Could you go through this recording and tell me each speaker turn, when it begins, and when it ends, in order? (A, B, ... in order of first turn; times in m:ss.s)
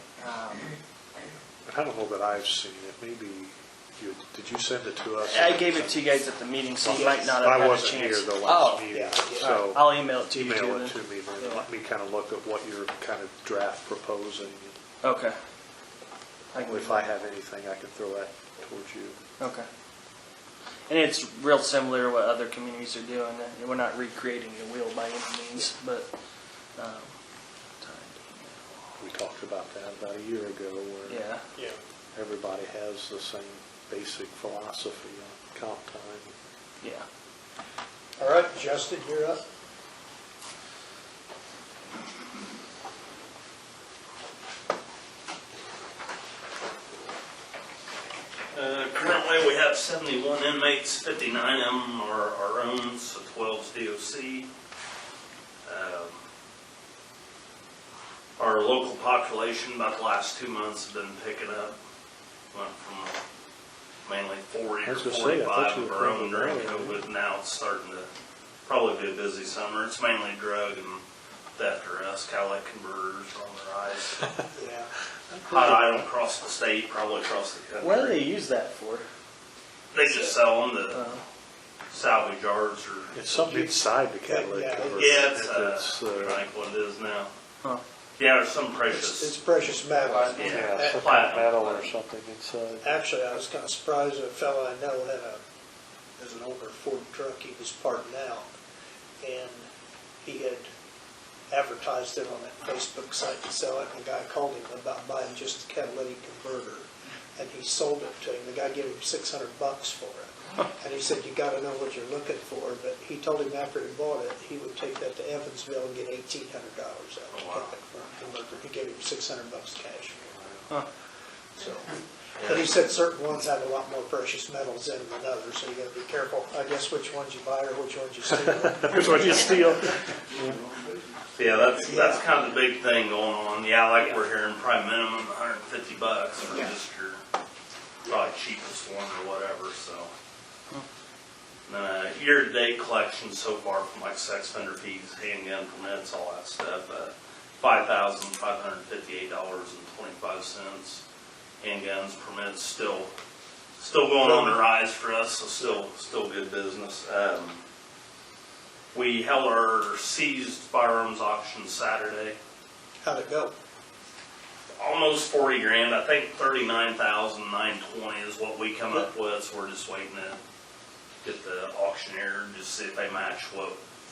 0:00.2-0:00.8 A
0:01.6-0:06.0 B
0:05.3-0:08.9 A
0:06.8-0:14.8 B
0:06.9-0:07.3 C
0:08.9-0:09.6 C
0:09.4-0:11.6 A
0:15.0-0:15.4 A
0:16.5-0:17.0 A
0:16.6-0:19.2 B
0:19.4-0:19.7 A
0:20.9-0:26.1 A
0:26.8-0:27.1 A
0:27.8-0:28.9 A
0:29.0-0:31.3 B
0:31.1-0:31.4 A
0:32.2-0:36.3 B
0:38.2-0:39.4 C
0:48.5-0:54.5 D
0:55.7-0:56.2 D
0:58.4-1:01.8 D
1:02.5-1:03.2 D
1:04.0-1:08.1 D
1:04.8-1:07.0 B
1:08.7-1:11.0 D
1:11.6-1:14.2 D
1:14.5-1:14.9 C
1:15.3-1:16.1 B
1:15.5-1:18.2 D
1:17.8-1:19.1 A
1:19.9-1:21.0 D
1:20.9-1:21.2 A
1:21.9-1:23.6 D
1:23.1-1:26.4 B
1:24.2-1:25.3 C
1:24.9-1:27.3 D
1:28.2-1:29.4 D
1:28.9-1:31.1 C
1:30.3-1:31.9 D
1:30.4-1:33.0 B
1:32.8-1:35.4 C
1:36.2-1:38.5 C
1:39.2-1:39.7 C
1:40.2-1:40.7 C
1:41.5-2:00.3 C
1:57.3-1:57.7 D
2:01.6-2:09.7 C
2:02.4-2:02.7 D
2:08.8-2:10.6 B
2:11.4-2:17.2 D
2:11.8-2:12.3 C
2:18.0-2:20.1 D
2:21.7-2:31.0 D
2:31.6-2:33.1 D
2:33.8-2:37.6 D
2:34.2-2:34.6 C
2:38.9-2:42.4 D
2:43.0-2:43.5 C
2:44.8-2:50.4 D
2:51.2-2:53.8 D